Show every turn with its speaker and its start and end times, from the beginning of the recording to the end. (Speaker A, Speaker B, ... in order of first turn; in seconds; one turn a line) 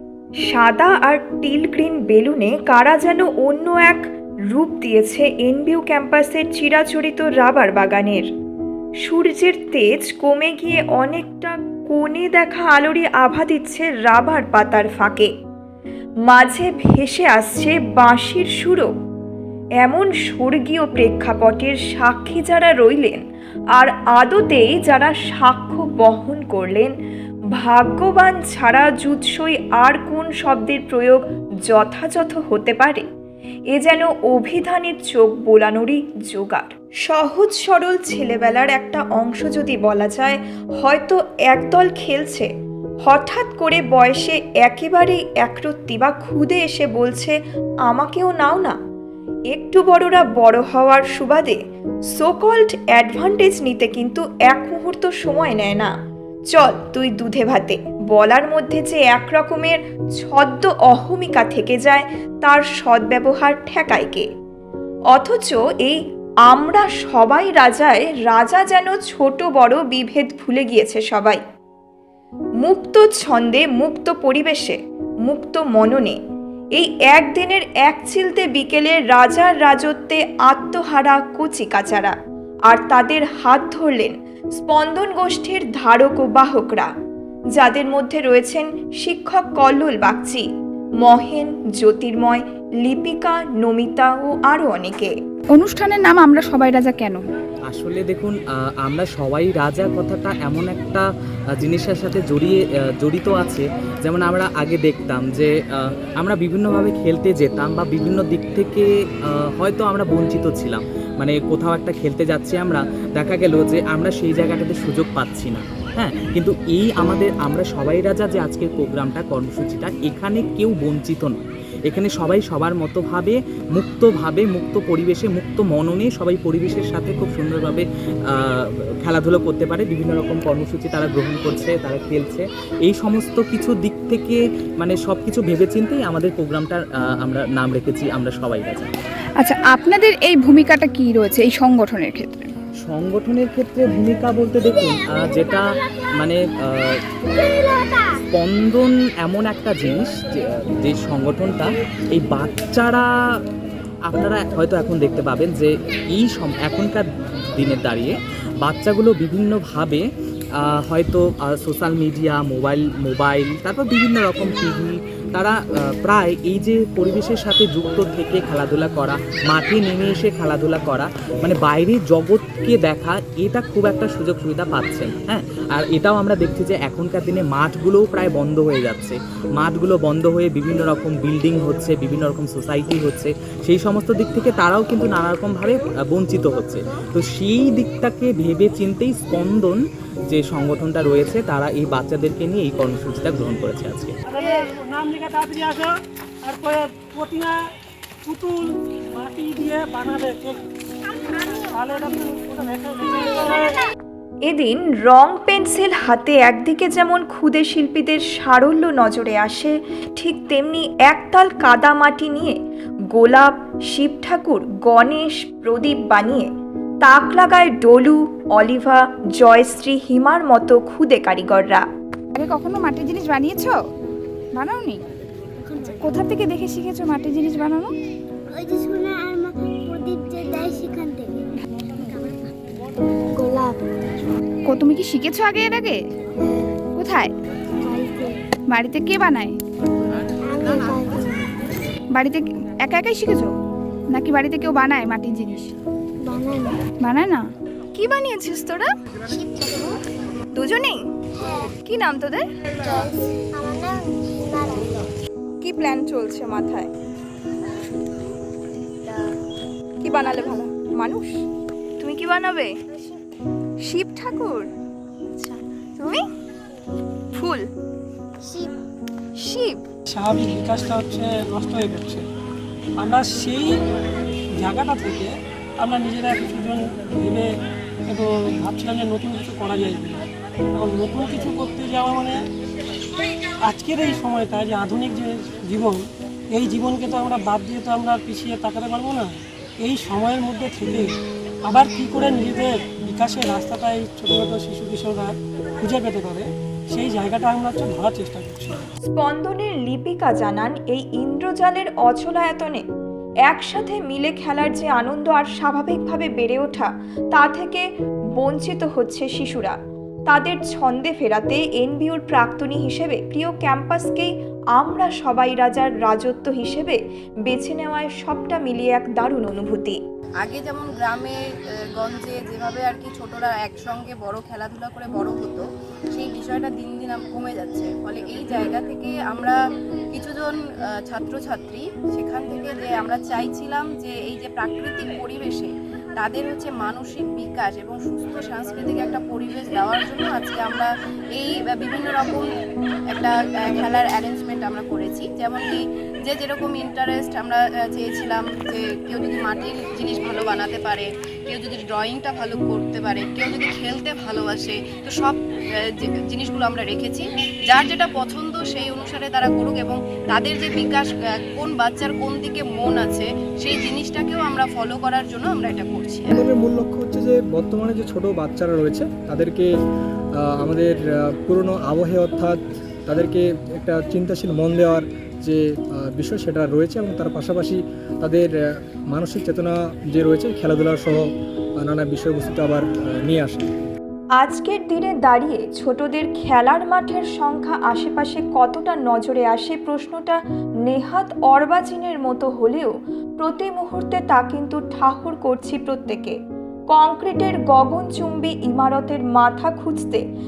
Speaker A: 0.5-8.3
Speaker A: 9.1-15.3
Speaker A: 16.3-18.9
Speaker A: 19.8-23.2
Speaker A: 23.8-26.9
Speaker A: 27.6-33.0
Speaker A: 33.7-42.5
Speaker A: 43.0-48.8
Speaker A: 49.5-51.6
Speaker A: 52.1-55.9
Speaker A: 56.5-64.2
Speaker A: 65.1-71.4
Speaker A: 72.6-76.2
Speaker A: 76.8-82.1
Speaker A: 82.7-86.9
Speaker A: 87.5-90.4
Speaker A: 91.0-95.1
Speaker B: 95.5-97.2
Speaker C: 97.7-138.9
Speaker B: 139.4-142.5
Speaker C: 142.8-147.0
Speaker C: 148.0-153.4
Speaker C: 154.0-194.1
Speaker D: 194.3-197.6
Speaker D: 198.2-200.6
Speaker D: 201.2-203.8
Speaker A: 204.4-212.6
Speaker A: 213.1-216.5
Speaker A: 217.0-221.8
Speaker B: 222.3-223.8
Speaker B: 224.5-225.0
Speaker E: 225.6-225.9
Speaker B: 226.0-227.9
Speaker E: 228.5-232.5
Speaker E: 233.3-233.8
Speaker B: 234.7-236.0
Speaker E: 236.4-236.8
Speaker B: 236.9-237.3
Speaker E: 237.8-238.3
Speaker B: 238.7-239.6
Speaker E: 240.4-241.4
Speaker B: 242.1-243.5
Speaker B: 244.1-245.7
Speaker E: 246.2-246.9
Speaker B: 246.9-247.4
Speaker A: 247.9-248.9
Speaker E: 249.3-250.0
Speaker A: 250.5-251.0
Speaker A: 251.8-252.5
Speaker E: 252.8-255.0
Speaker A: 255.6-256.9
Speaker A: 260.0-261.4
Speaker A: 262.0-262.7
Speaker A: 263.8-264.7
Speaker A: 265.3-266.2
Speaker A: 267.3-267.7
Speaker E: 268.4-268.7
Speaker A: 269.4-269.8
Speaker D: 270.1-272.2
Speaker D: 273.0-273.8
Speaker D: 274.6-277.5
Speaker D: 278.1-280.2
Speaker D: 280.8-282.4
Speaker D: 283.6-291.1
Speaker D: 291.6-298.8
Speaker A: 299.1-302.8
Speaker A: 303.5-307.8
Speaker A: 308.4-309.8
Speaker A: 310.3-320.0
Speaker F: 320.4-321.3
Speaker F: 322.0-329.6
Speaker F: 330.1-342.5
Speaker F: 343.1-366.3
Speaker G: 366.3-369.7
Speaker G: 370.4-381.3
Speaker G: 381.8-383.7
Speaker A: 384.4-396.4
Speaker A: 396.9-400.2